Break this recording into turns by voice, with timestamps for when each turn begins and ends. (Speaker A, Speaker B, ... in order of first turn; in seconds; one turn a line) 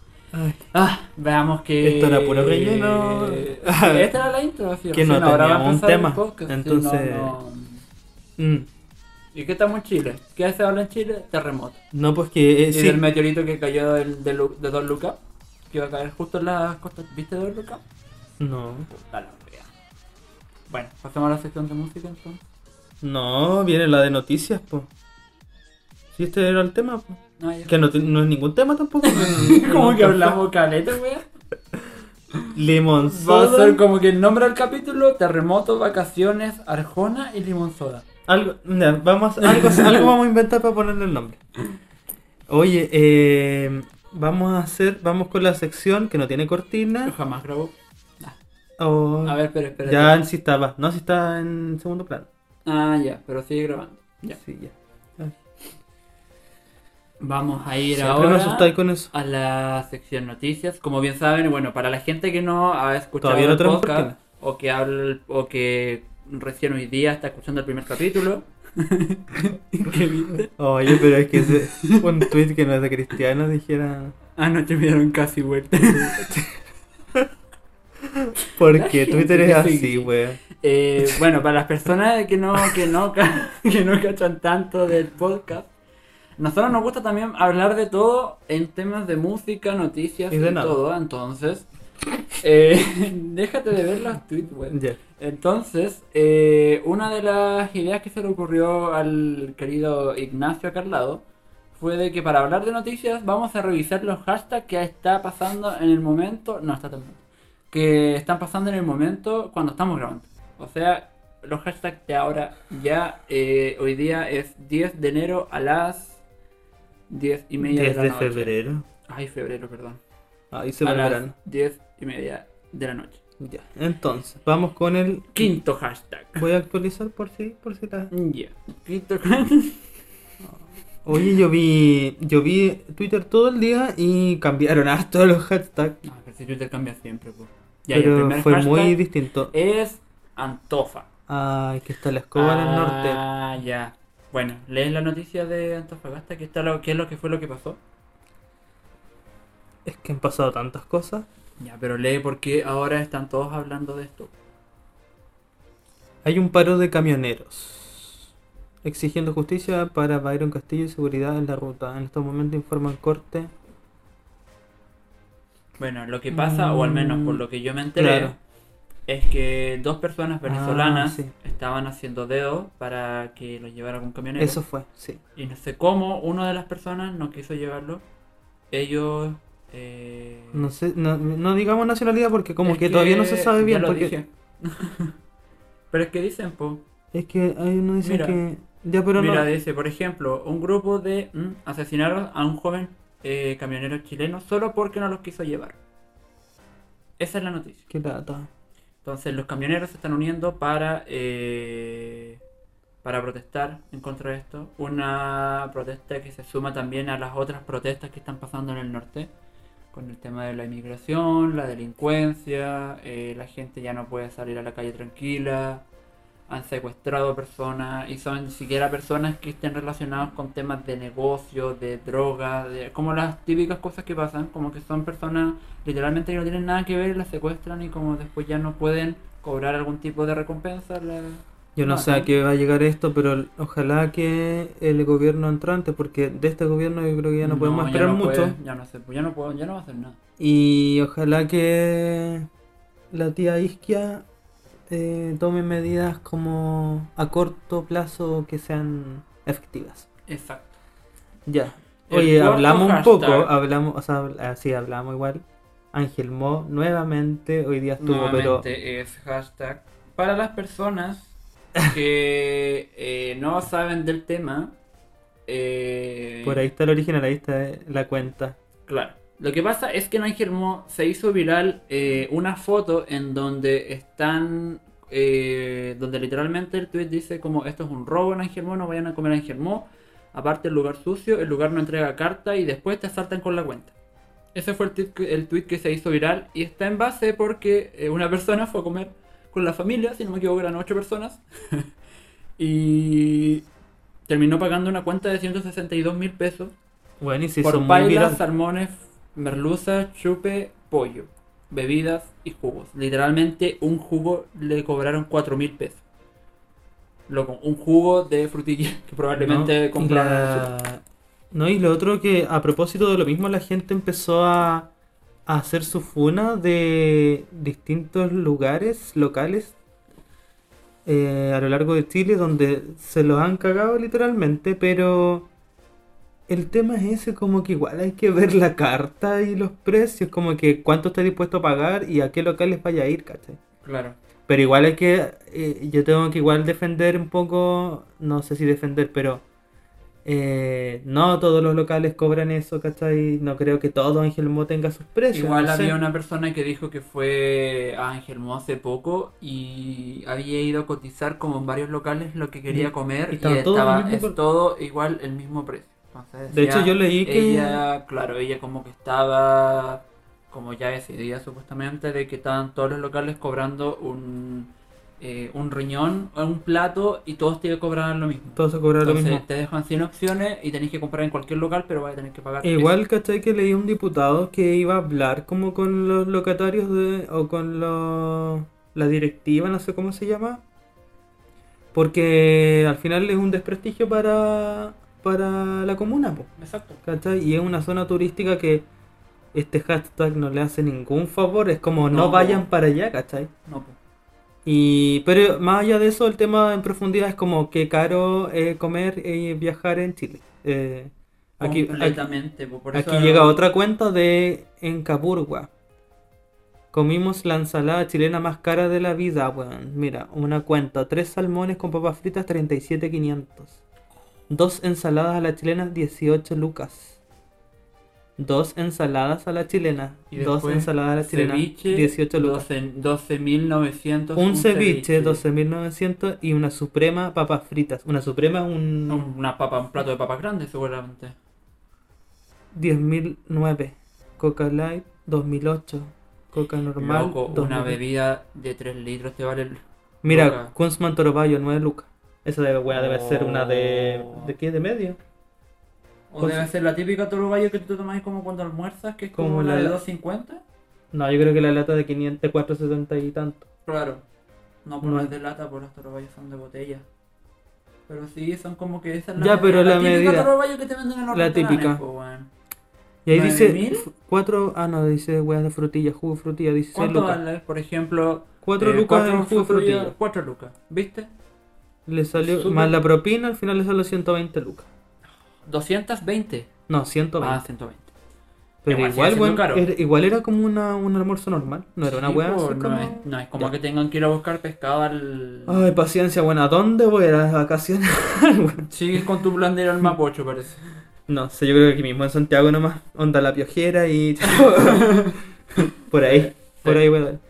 Speaker A: 0.3-0.7
Speaker B: 0.7-7.8
Speaker A: 1.8-4.1
Speaker A: 4.9-7.3
Speaker A: 8.4-8.7
Speaker B: 9.3-11.8
Speaker A: 11.9-13.0
Speaker B: 12.7-15.2
Speaker B: 15.7-17.8
Speaker A: 18.4-18.9
Speaker B: 18.9-19.7
Speaker B: 20.7-22.4
Speaker A: 23.0-24.9
Speaker A: 26.1-30.4
Speaker B: 27.4-27.8
Speaker B: 29.0-31.3
Speaker A: 32.5-33.8
Speaker B: 33.0-38.0
Speaker A: 38.3-41.4
Speaker B: 39.4-40.1
Speaker A: 42.5-47.1
Speaker B: 47.1-48.4
Speaker A: 48.8-52.3
Speaker B: 49.2-50.2
Speaker B: 52.6-54.4
Speaker A: 54.4-55.4
Speaker B: 57.2-72.3
Speaker A: 57.8-59.1
Speaker A: 63.2-64.2
Speaker A: 70.5-74.2
Speaker B: 74.4-76.4
Speaker A: 75.9-76.6
Speaker A: 78.0-80.4
Speaker B: 78.6-85.7
Speaker B: 86.4-91.7
Speaker A: 90.3-90.8
Speaker B: 92.4-101.2
Speaker A: 94.7-95.0
Speaker B: 101.8-116.2
Speaker B: 117.1-118.5
Speaker A: 117.6-118.8
Speaker B: 119.1-120.0
Speaker A: 120.5-121.3
Speaker B: 120.8-123.2
Speaker A: 123.4-125.5
Speaker B: 125.3-126.5
Speaker A: 126.4-128.1
Speaker B: 128.1-129.9
Speaker A: 130.5-136.0
Speaker B: 136.0-141.1
Speaker A: 137.9-139.5
Speaker A: 141.3-143.2
Speaker B: 142.3-147.8
Speaker A: 149.8-151.3
Speaker B: 151.6-154.3
Speaker A: 156.2-158.3
Speaker A: 158.8-163.5
Speaker B: 165.8-168.3
Speaker A: 166.3-167.4
Speaker A: 168.0-168.3
Speaker B: 169.1-174.6
Speaker A: 170.5-171.3
Speaker A: 174.4-175.2
Speaker B: 175.4-178.0
Speaker B: 178.7-180.7
Speaker A: 180.5-184.1
Speaker B: 182.6-185.1
Speaker B: 185.9-186.8
Speaker A: 187.1-189.5
Speaker B: 188.0-188.4
Speaker B: 189.2-195.8
Speaker B: 197.2-197.8
Speaker A: 197.9-198.5
Speaker B: 199.0-202.4
Speaker B: 203.0-209.3
Speaker B: 209.9-215.8
Speaker B: 216.5-232.3
Speaker A: 231.8-238.6
Speaker B: 237.4-240.2
Speaker A: 240.4-242.5
Speaker A: 243.1-244.2
Speaker A: 244.9-250.1
Speaker B: 250.3-250.8
Speaker A: 251.5-258.6
Speaker B: 252.1-253.5
Speaker B: 258.0-264.7
Speaker B: 265.5-266.6
Speaker A: 266.4-268.6
Speaker B: 268.9-283.9
Speaker B: 284.5-291.9
Speaker B: 292.6-293.6
Speaker B: 294.3-296.7
Speaker A: 297.2-298.4
Speaker B: 297.6-306.0
Speaker B: 307.3-310.7
Speaker A: 309.4-314.9
Speaker A: 315.5-319.7
Speaker A: 321.1-325.5
Speaker A: 326.5-333.6
Speaker B: 333.8-334.2
Speaker A: 334.5-339.4
Speaker A: 340.2-345.9
Speaker B: 345.3-372.9
Speaker A: 352.7-354.4
Speaker A: 356.5-357.8
Speaker A: 368.6-369.4
Speaker A: 372.6-380.6
Speaker A: 381.9-386.5
Speaker B: 386.6-387.0
Speaker A: 387.0-388.9
Speaker A: 389.5-393.5
Speaker B: 392.1-392.7
Speaker B: 393.7-393.9
Speaker A: 394.6-402.3
Speaker B: 401.6-403.6
Speaker A: 402.9-405.7
Speaker A: 406.9-413.8
Speaker A: 414.5-417.2
Speaker A: 418.4-422.6
Speaker B: 420.3-425.4
Speaker A: 424.4-429.3
Speaker B: 429.1-431.4
Speaker A: 432.7-438.0
Speaker B: 437.0-440.7
Speaker A: 440.2-445.2
Speaker B: 442.9-444.5
Speaker B: 446.3-450.6
Speaker A: 446.4-446.7
Speaker A: 449.4-450.0
Speaker A: 451.1-453.6
Speaker B: 453.9-454.2
Speaker B: 454.9-457.1
Speaker A: 455.0-455.3
Speaker B: 458.1-462.5
Speaker A: 459.4-460.5
Speaker A: 461.3-462.0
Speaker A: 463.3-467.4
Speaker B: 463.3-464.1
Speaker B: 466.9-471.3
Speaker A: 468.6-470.1
Speaker A: 472.1-474.9
Speaker B: 472.4-473.0
Speaker B: 475.6-476.7
Speaker A: 476.9-477.6
Speaker B: 477.4-478.1
Speaker A: 478.8-483.7
Speaker B: 478.9-479.9
Speaker B: 482.1-485.9
Speaker A: 485.7-489.2
Speaker B: 488.8-490.8
Speaker A: 491.3-497.4
Speaker B: 494.7-495.4
Speaker B: 496.2-497.1